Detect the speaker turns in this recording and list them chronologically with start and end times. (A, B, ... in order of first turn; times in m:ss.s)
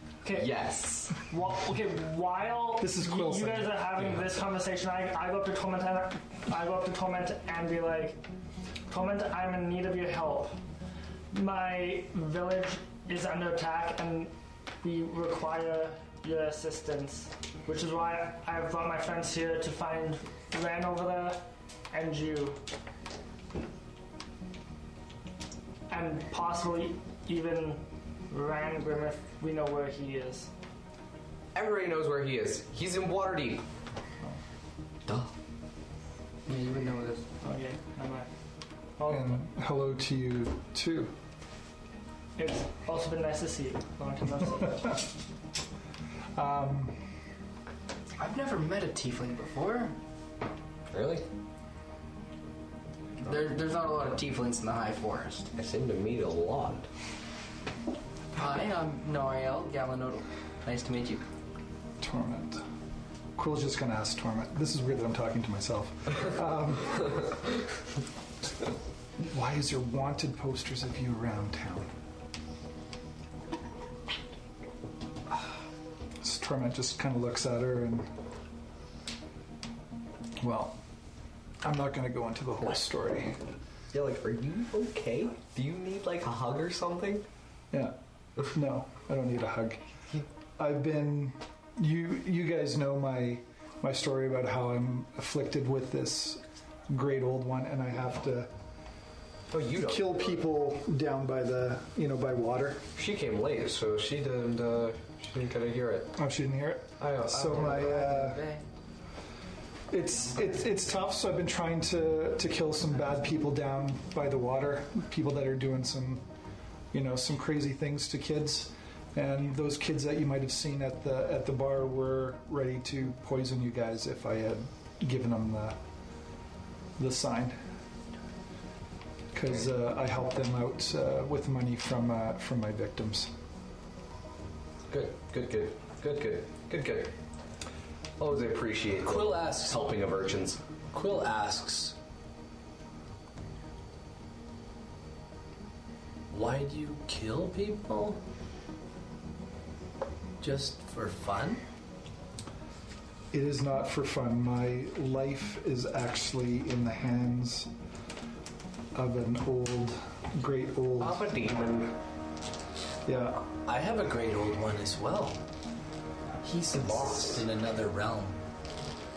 0:00.2-0:00.5 A
0:00.3-0:01.2 B
0:01.2-0:08.2 A
0:02.8-0:03.9 C
0:08.9-0:10.6 A
0:11.3-0:22.6 A
0:25.9-0:30.5 A
0:31.6-0:33.7 B
0:35.1-0:35.3 B
0:36.5-0:37.3 D
0:37.4-0:38.3 A
0:39.0-0:39.4 A
0:39.1-0:41.1 C
0:42.4-0:45.0 A
0:46.4-0:47.0 C
0:48.2-0:50.0 D
0:50.9-0:51.3 B
0:53.2-0:55.5 D
0:55.6-0:56.9 B
0:58.4-1:01.2 D
1:02.0-1:02.6 C
1:03.4-1:07.4 C
1:09.3-1:11.9 C
1:16.2-1:18.1 C
1:20.4-1:20.8 C
1:21.6-1:23.4 C
1:23.9-1:27.3 B
1:28.5-1:29.8 C
1:30.6-1:38.5 C
1:39.5-1:40.5 B
1:39.8-1:42.8 C
1:43.0-1:46.2 B
1:46.2-1:48.4 C
1:47.0-1:47.9 B
1:47.5-1:48.6 D
1:49.9-1:56.2 C
1:56.9-2:05.8 C
2:07.0-2:07.6 C
2:09.3-2:13.3 C
2:14.9-2:17.1 B
2:18.2-2:20.6 B
2:19.0-2:19.8 E
2:20.9-2:22.0 E
2:26.3-2:28.2 E
2:30.4-2:31.6 E
2:33.3-2:37.7 C
2:39.0-2:41.3 C
2:41.0-2:42.0 B
2:43.1-2:43.4 C
2:43.6-2:45.4 E
2:46.4-2:47.4 D
2:46.8-2:48.4 E